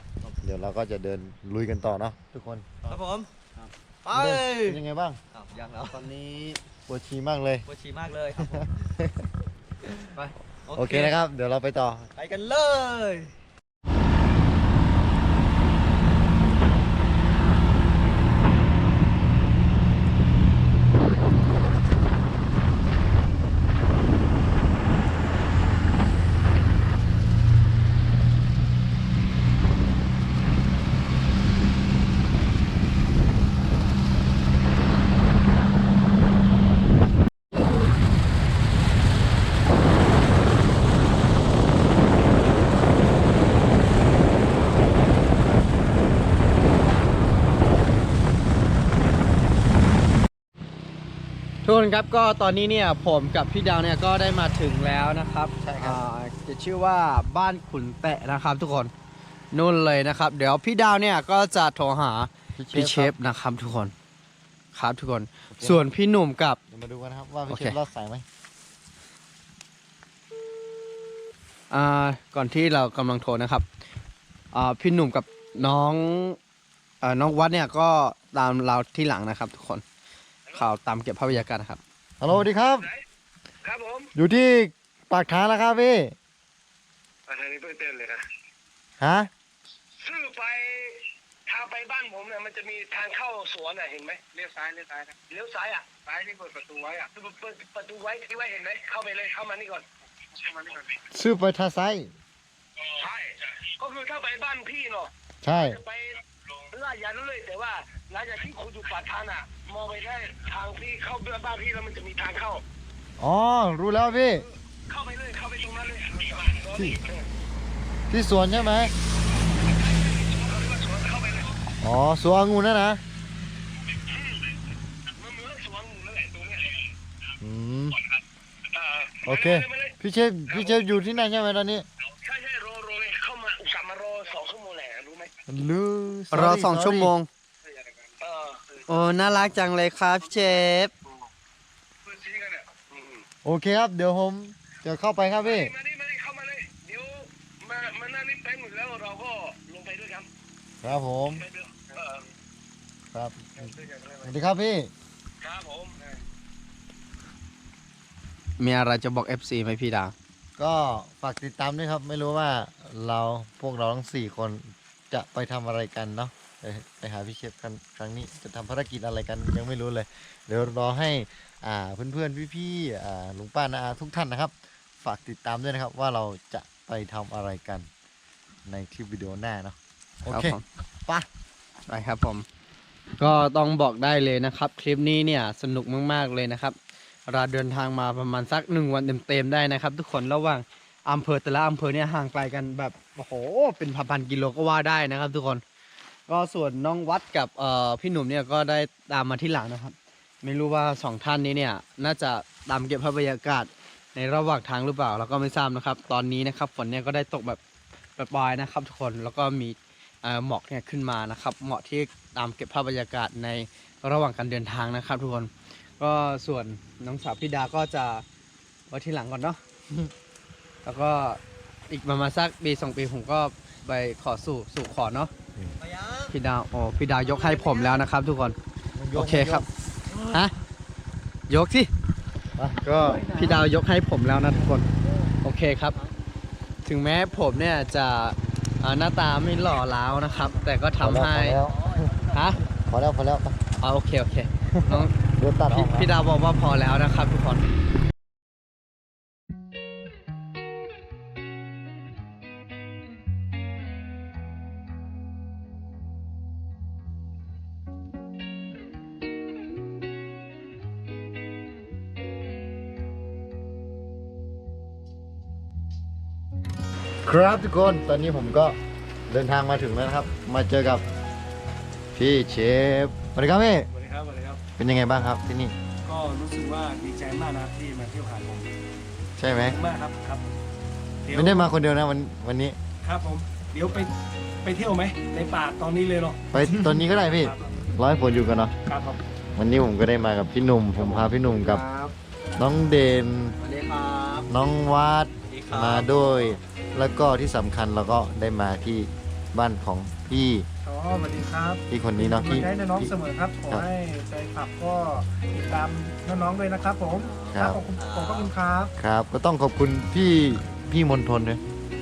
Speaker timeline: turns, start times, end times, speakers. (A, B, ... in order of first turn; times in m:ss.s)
0:00.4-0:03.0 A
0:02.8-0:03.3 B
0:04.0-0:06.1 B
0:04.1-0:05.2 A
0:05.9-0:06.6 C
0:06.9-0:07.7 A
0:07.7-0:08.7 B
0:08.4-0:09.3 A
0:10.7-0:11.2 B
0:10.7-0:12.1 A
0:12.2-0:13.3 B
0:51.6-0:58.9 C
0:55.6-0:56.0 A
0:59.5-1:03.9 C
1:02.6-1:03.2 A
1:04.7-1:06.6 C
1:05.5-1:05.9 A
1:06.7-1:08.2 A
1:07.5-1:07.8 C
1:11.7-1:13.7 C
1:14.5-1:16.4 C
1:17.0-1:19.8 C
1:20.5-1:21.8 C
1:22.2-1:22.9 A
1:23.6-1:24.1 D
1:24.2-1:26.2 A
1:27.3-1:28.2 D
1:29.0-1:29.3 A
1:30.0-1:41.1 D
1:41.1-1:42.1 A
1:42.8-1:52.6 D
1:45.4-1:45.8 A
1:53.2-1:54.5 A
1:54.3-1:57.2 D
1:56.7-1:57.0 A
1:58.1-1:58.9 A
1:59.6-2:01.6 D
2:01.8-2:03.0 A
2:03.9-2:04.6 D
2:05.1-2:06.9 D
2:07.4-2:08.0 A
2:08.7-2:10.0 D
2:09.2-2:11.9 A
2:10.5-2:10.8 D
2:12.1-2:15.4 D
2:15.5-2:17.1 A
2:16.3-2:17.3 C
2:17.8-2:18.8 D
2:18.9-2:20.9 C
2:22.1-2:23.2 D
2:23.4-2:25.7 A
2:25.4-2:30.3 D
2:30.8-2:31.4 A
2:31.4-2:32.3 D
2:33.1-2:33.6 A
2:33.6-2:34.3 D
2:34.2-2:34.9 A
2:35.4-2:36.2 D
2:38.6-2:40.1 C
2:40.6-2:57.9 A
2:58.7-3:01.3 A
3:00.3-3:00.6 C
3:01.9-3:02.4 C
3:03.2-3:15.6 C
3:16.3-3:27.6 C
3:28.2-3:38.2 C
3:38.9-3:39.6 C
3:40.8-3:45.3 C
3:45.8-3:46.3 B
3:46.3-3:48.6 C
3:47.2-3:48.0 B
3:49.0-3:49.7 A
3:49.1-3:50.5 C
3:51.5-3:51.9 C
3:52.6-3:53.6 A
3:52.9-3:54.9 C
3:55.4-3:56.0 C
3:56.8-4:01.6 C
4:01.0-4:02.0 A
4:01.7-4:02.2 B
4:02.3-4:02.6 C
4:02.9-4:03.6 A
4:03.8-4:05.1 C
4:04.7-4:06.1 A
4:05.7-4:07.6 C
4:27.2-4:28.8 A
4:29.3-4:31.0 A
4:32.1-4:33.9 A
4:33.9-4:34.6 E
4:34.8-4:35.8 A
4:36.1-4:38.7 E
4:39.4-4:39.8 A
4:39.6-4:40.6 E
4:41.2-4:41.7 E
4:41.3-4:42.8 A
4:43.0-4:44.1 E
4:44.6-4:47.6 E
4:46.5-4:48.7 A
4:48.9-4:49.2 E
4:49.6-4:51.8 A
4:51.2-4:52.1 E
4:52.6-4:53.6 A
4:53.6-4:54.5 C
4:54.5-5:00.7 A
4:55.5-4:56.4 B
5:00.9-5:08.9 E
5:01.9-5:03.2 A
5:07.2-5:08.5 B
5:07.5-5:07.8 A
5:09.0-5:11.6 A